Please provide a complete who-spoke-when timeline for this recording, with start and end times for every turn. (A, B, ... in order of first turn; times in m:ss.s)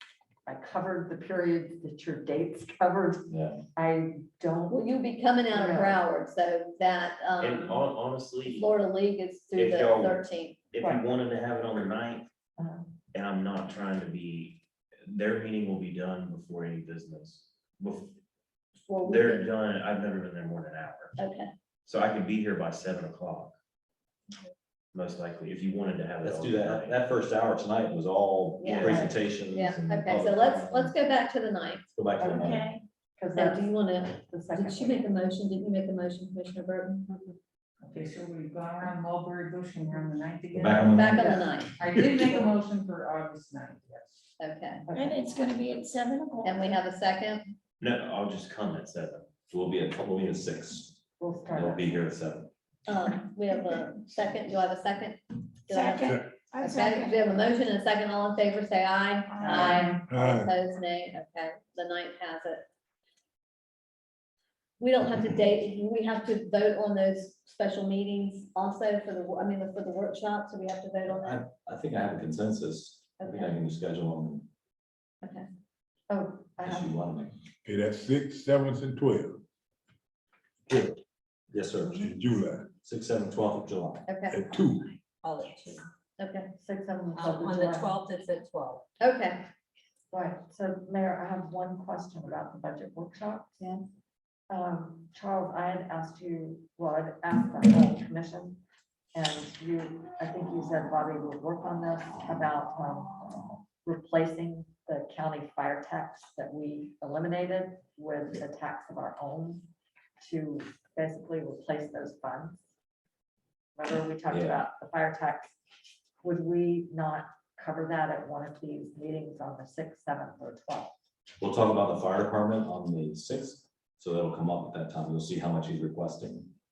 0:00.5-0:04.9 A
0:03.3-0:03.6 B
0:04.7-0:07.9 C
0:05.5-0:06.0 A
0:07.4-0:08.7 D
0:08.4-0:10.6 C
0:09.5-0:10.2 D
0:10.7-0:12.2 D
0:12.6-0:12.9 A
0:13.1-0:18.1 D
0:18.9-0:19.4 C
0:19.0-0:21.1 D
0:21.2-0:21.5 C
0:21.9-0:23.5 D
0:24.9-0:27.0 D
0:26.2-0:30.9 B
0:28.6-0:31.9 C
0:28.8-0:29.1 A
0:31.9-0:32.6 B
0:32.2-0:35.1 A
0:32.3-0:32.8 E
0:33.3-0:37.1 C
0:37.8-0:44.2 F
0:40.5-0:41.4 B
0:40.9-0:41.7 C
0:42.0-0:42.3 G
0:44.4-0:44.8 C
0:44.9-0:45.2 A
0:44.9-0:46.8 E
0:46.4-0:47.5 C
0:47.8-0:49.3 D
0:49.5-0:51.0 B
0:51.2-0:52.0 A
0:51.5-0:52.5 B
0:52.8-1:02.6 C
0:55.7-0:57.3 E
0:59.3-0:59.9 E
0:59.4-1:00.0 F
0:59.5-0:59.8 A
1:00.1-1:00.5 G
1:04.8-1:11.4 C
1:11.1-1:14.5 B
1:13.2-1:13.6 C
1:16.1-1:16.9 A
1:16.6-1:17.4 B
1:17.6-1:19.4 G
1:20.7-1:21.0 G
1:21.5-1:22.1 B
1:21.9-1:22.7 G
1:22.8-1:24.1 B
1:24.1-1:24.6 C
1:24.3-1:24.9 G
1:25.2-1:25.7 H
1:26.2-1:26.5 C
1:26.6-1:28.0 A
1:27.2-1:28.8 H
1:29.0-1:29.5 C
1:30.1-1:33.8 A
1:34.5-1:38.6 A
1:39.1-1:43.2 A
1:43.8-1:49.7 A
1:50.2-1:52.6 A
1:53.8-1:55.6 A
1:54.3-1:54.6 B
1:56.2-2:00.9 A
2:01.4-2:06.5 B